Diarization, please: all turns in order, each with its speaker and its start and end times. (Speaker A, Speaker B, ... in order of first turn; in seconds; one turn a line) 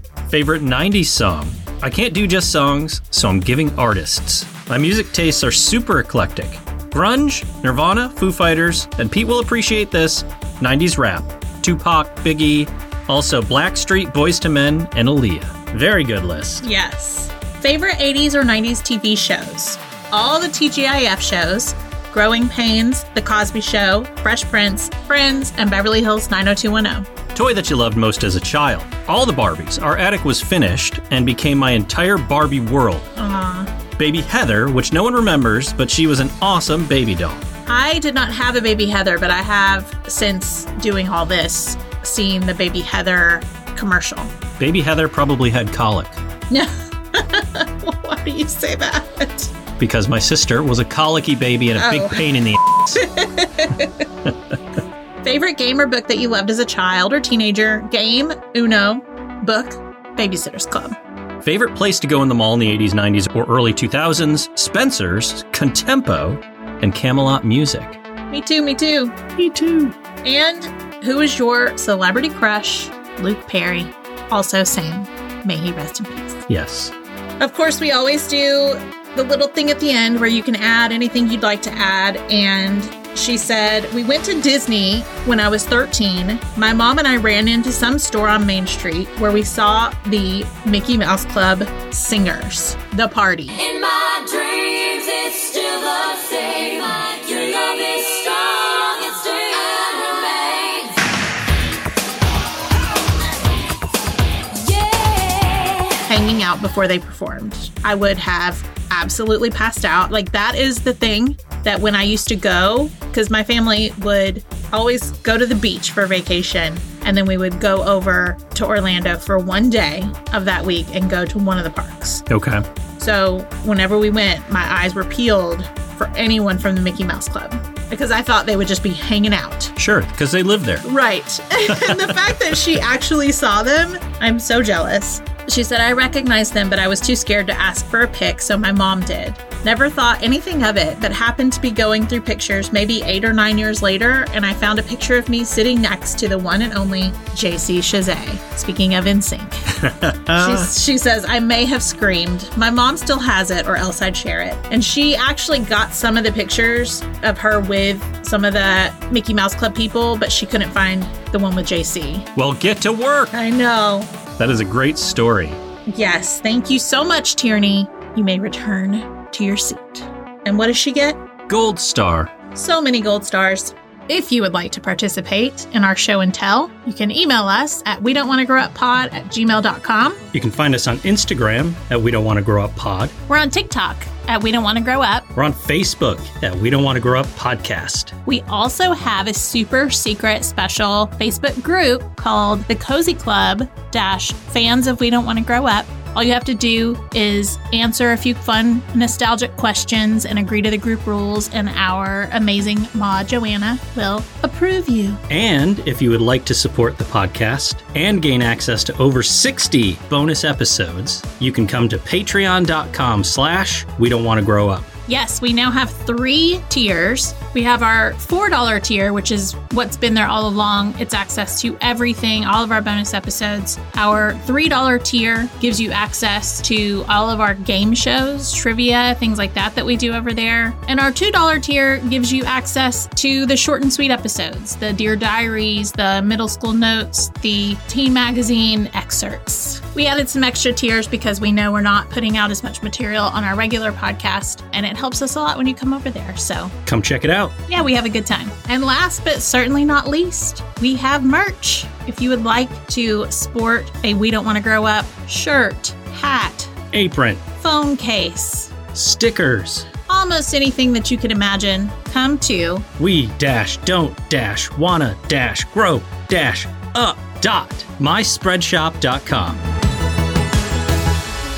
Speaker A: 0.3-16.6
Speaker B: 16.6-27.1
Speaker A: 27.3-33.1
Speaker B: 33.2-33.7
Speaker A: 34.0-37.4
Speaker B: 37.7-44.3
Speaker A: 44.6-46.2
Speaker B: 46.5-49.5
Speaker A: 49.8-53.0
Speaker B: 51.8-52.3
Speaker B: 52.9-54.1
Speaker B: 55.2-61.0
Speaker A: 61.4-68.0
Speaker B: 68.3-76.5
Speaker A: 76.5-76.9
Speaker B: 77.4-93.6
Speaker C: 93.6-101.0
Speaker C: 104.5-106.0
Speaker B: 106.1-122.3
Speaker A: 122.3-122.6
Speaker B: 123.0-129.7
Speaker A: 129.8-130.8
Speaker B: 130.8-162.3
Speaker A: 131.7-132.1
Speaker A: 149.8-150.7
Speaker A: 162.4-163.3
Speaker B: 163.3-164.1
Speaker A: 164.4-165.6
Speaker B: 165.9-171.2
Speaker A: 171.5-172.3
Speaker B: 172.5-180.2
Speaker A: 180.3-183.1
Speaker B: 183.3-185.3
Speaker A: 185.3-188.1
Speaker B: 188.3-205.2
Speaker A: 205.3-214.9
Speaker B: 215.1-246.8
Speaker A: 246.8-247.6
Speaker B: 247.7-256.8
Speaker A: 256.9-257.4
Speaker B: 257.6-258.8
Speaker A: 258.9-259.9
Speaker B: 260.1-262.9
Speaker A: 263.0-269.6